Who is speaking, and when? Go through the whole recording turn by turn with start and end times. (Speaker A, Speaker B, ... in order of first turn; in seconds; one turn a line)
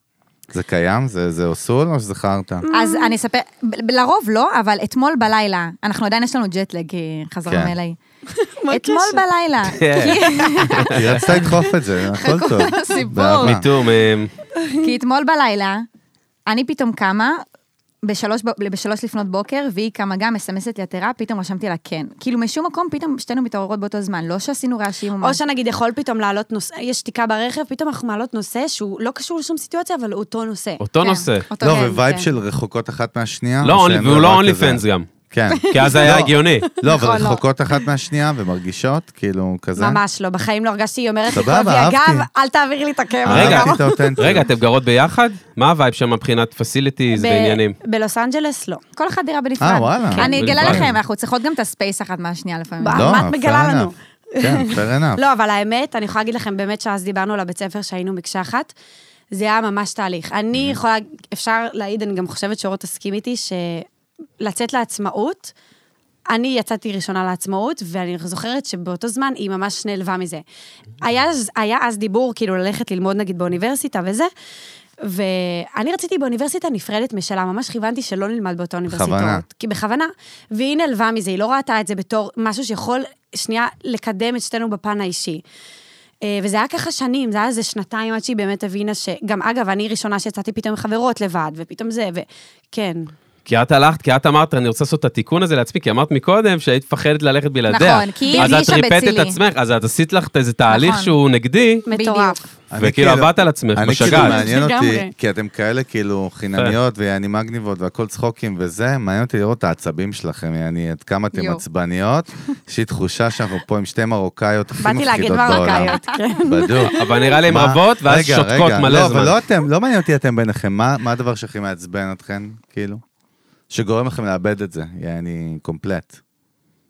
Speaker A: 0.5-2.6
Speaker B: 2.6-3.1
Speaker C: 2.7-8.0
Speaker A: 7.5-7.7
Speaker B: 8.3-9.2
Speaker C: 8.7-10.9
Speaker D: 9.8-10.2
Speaker B: 9.9-10.9
Speaker D: 10.8-11.4
Speaker A: 10.9-13.7
Speaker C: 12.1-13.6
Speaker D: 13.4-14.3
Speaker B: 14.6-14.9
Speaker C: 14.8-15.8
Speaker C: 16.5-17.4
Speaker C: 18.0-25.4
Speaker B: 25.2-32.3
Speaker D: 30.8-31.5
Speaker C: 31.0-32.0
Speaker A: 31.6-40.0
Speaker D: 33.6-35.1
Speaker D: 35.7-36.7
Speaker C: 36.9-37.4
Speaker B: 39.8-44.4
Speaker A: 41.3-42.3
Speaker A: 43.2-44.5
Speaker D: 43.3-47.8
Speaker B: 47.1-48.8
Speaker C: 49.0-53.2
Speaker A: 49.6-50.8
Speaker B: 50.1-50.8
Speaker D: 50.3-50.9
Speaker B: 52.8-58.7
Speaker A: 52.9-55.2
Speaker B: 59.3-63.9
Speaker B: 64.4-65.5
Speaker B: 66.3-70.4
Speaker B: 71.0-74.3
Speaker B: 75.0-85.4
Speaker A: 78.9-79.4
Speaker B: 86.2-93.1
Speaker D: 93.5-101.8
Speaker C: 97.7-99.4
Speaker B: 98.3-98.6
Speaker C: 100.7-101.2
Speaker B: 101.8-102.5
Speaker C: 101.9-102.4
Speaker A: 102.7-117.0
Speaker D: 102.8-104.4
Speaker B: 104.0-105.1
Speaker C: 111.3-111.6
Speaker B: 114.8-117.4
Speaker C: 115.5-116.2
Speaker D: 117.0-119.3
Speaker A: 117.5-123.0
Speaker A: 123.7-126.2